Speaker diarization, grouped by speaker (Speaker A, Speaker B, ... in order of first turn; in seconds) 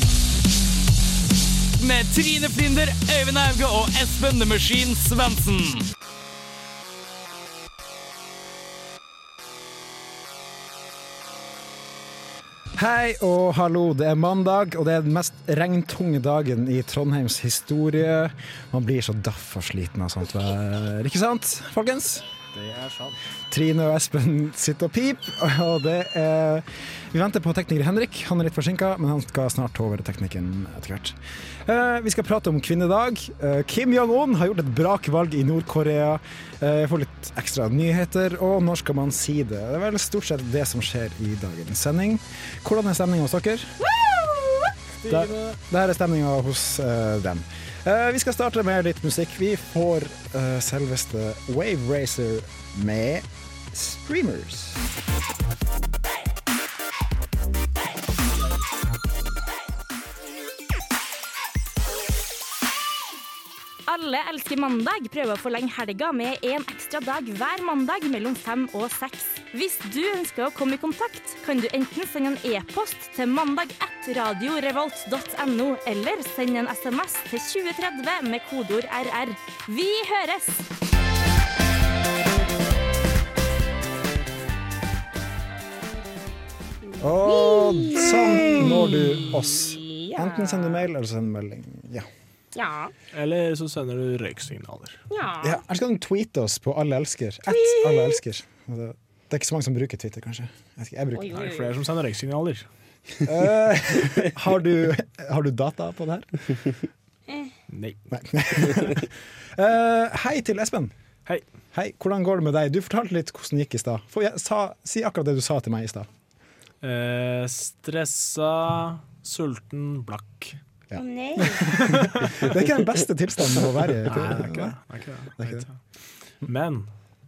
Speaker A: 1.8-5.9
Speaker B: 12.8-22.3, 23.5-43.8, 45.1-54.9, 87.0-92.1, 95.4-101.5, 103.2-106.8, 108.1-110.9, 111.7-116.1, 120.9-124.8, 125.4-125.7
Speaker C: 22.5-23.2, 45.0-45.5, 93.1-95.0, 101.4-102.7, 107.7-108.0, 116.8-120.6, 121.8-122.3, 124.0-125.8, 126.4-126.9
Speaker D: 63.9-80.6
Speaker E: 87.2-90.8, 92.5-92.9, 95.1-95.6, 97.5-98.2, 101.1-101.7, 121.0-121.7